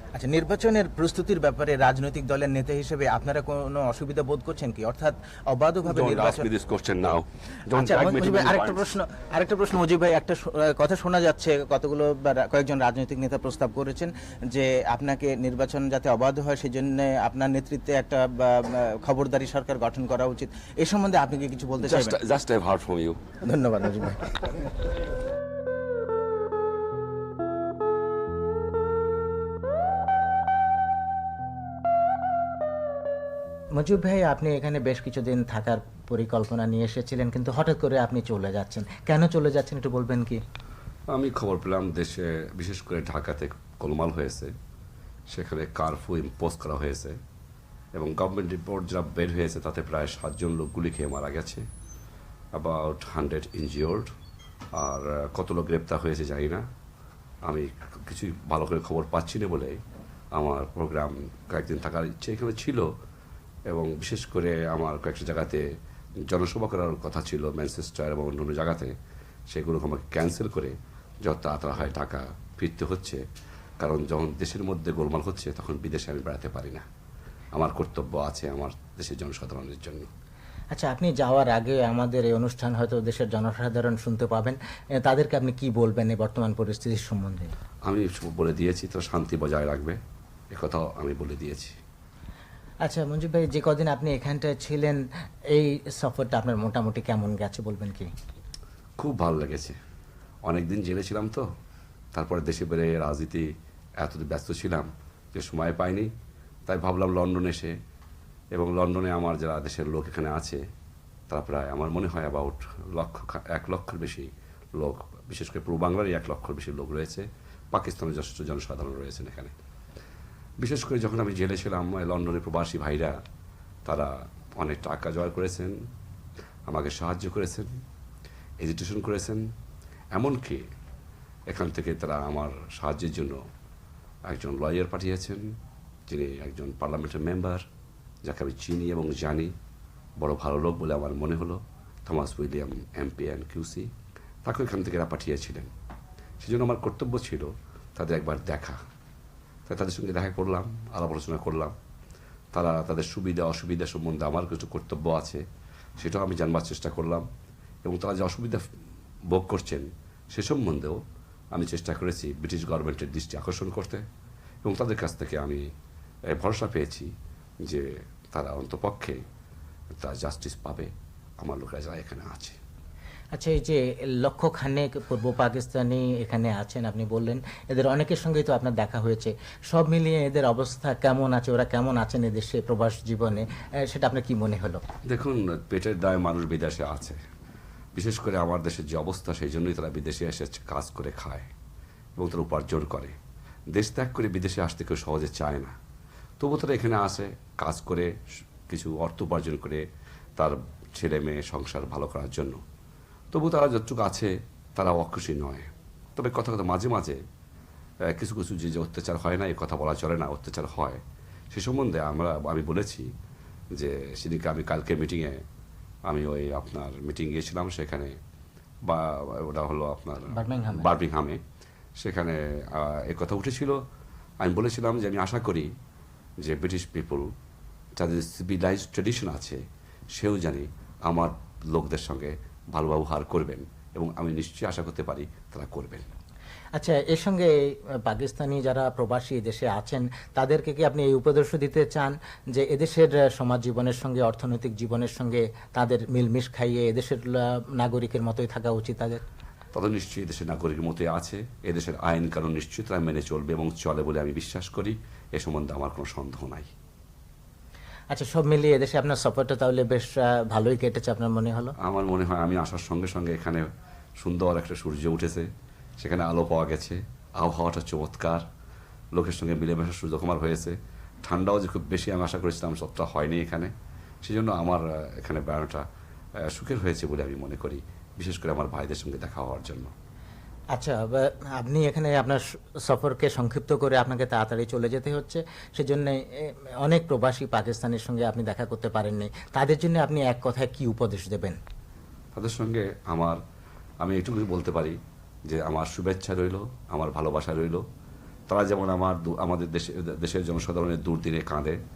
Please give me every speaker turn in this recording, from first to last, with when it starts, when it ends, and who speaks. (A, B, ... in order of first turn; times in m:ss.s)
0:00.2-0:06.4 A
0:05.8-0:08.9 B
0:07.7-0:22.1 A
0:08.1-0:09.1 C
0:10.6-0:11.5 C
0:21.8-0:23.2 B
0:23.5-0:24.3 A
0:33.8-0:40.4 C
0:41.1-0:44.5 D
0:45.3-0:47.2 D
0:48.0-0:51.6 D
0:52.5-0:54.1 D
0:54.8-0:56.6 D
0:57.4-0:59.8 D
1:00.4-1:02.9 D
1:03.7-1:05.6 D
1:06.3-1:08.9 D
1:09.5-1:13.2 D
1:13.8-1:16.8 D
1:17.5-1:20.1 D
1:20.7-1:27.5 C
1:27.8-1:30.0 D
1:30.5-1:31.8 D
1:32.9-1:35.0 C
1:35.6-1:38.1 C
1:39.0-1:39.8 D
1:40.4-1:41.5 D
1:42.1-1:46.1 D
1:46.7-1:47.8 D
1:48.5-1:50.6 D
1:51.3-1:59.5 D
2:00.6-2:03.2 D
2:03.8-2:05.8 D
2:06.7-2:07.7 D
2:08.6-2:09.4 D
2:10.1-2:10.6 D
2:11.5-2:13.4 D
2:14.3-2:15.5 D
2:16.1-2:17.6 D
2:18.2-2:19.5 D
2:20.2-2:23.9 D
2:24.4-2:25.7 D
2:26.4-2:28.8 D
2:29.7-2:31.7 D
2:32.5-2:35.4 D
2:36.0-2:37.3 D
2:37.8-2:38.6 D
2:39.3-2:41.0 D
2:41.5-2:44.0 D
2:44.6-2:45.7 D
2:46.3-2:47.1 D
2:47.6-2:49.2 D
2:50.0-2:52.6 D
2:53.3-3:04.8 C
3:05.1-3:07.2 D
3:07.9-3:11.5 D
3:12.2-3:13.2 D
3:13.7-3:15.8 D
3:16.4-3:18.1 D
3:18.7-3:19.8 D
3:20.4-3:22.6 D
3:23.3-3:27.2 D
3:28.1-3:33.1 D
3:33.7-3:35.4 D
3:36.0-3:38.2 D
3:38.8-3:41.4 D
3:42.0-3:43.8 D
3:44.4-3:45.7 D
3:46.4-3:47.3 D
3:48.0-3:56.1 D
3:56.8-3:57.5 C
3:58.1-4:09.2 C
4:09.7-4:16.7 D
4:18.1-4:21.7 C
4:21.8-4:28.5 D
4:29.1-4:33.7 D
4:34.2-4:35.8 D
4:36.4-4:39.9 D
4:40.8-4:51.6 C
4:52.3-4:53.4 D
4:54.0-4:57.8 D
4:58.5-5:01.8 D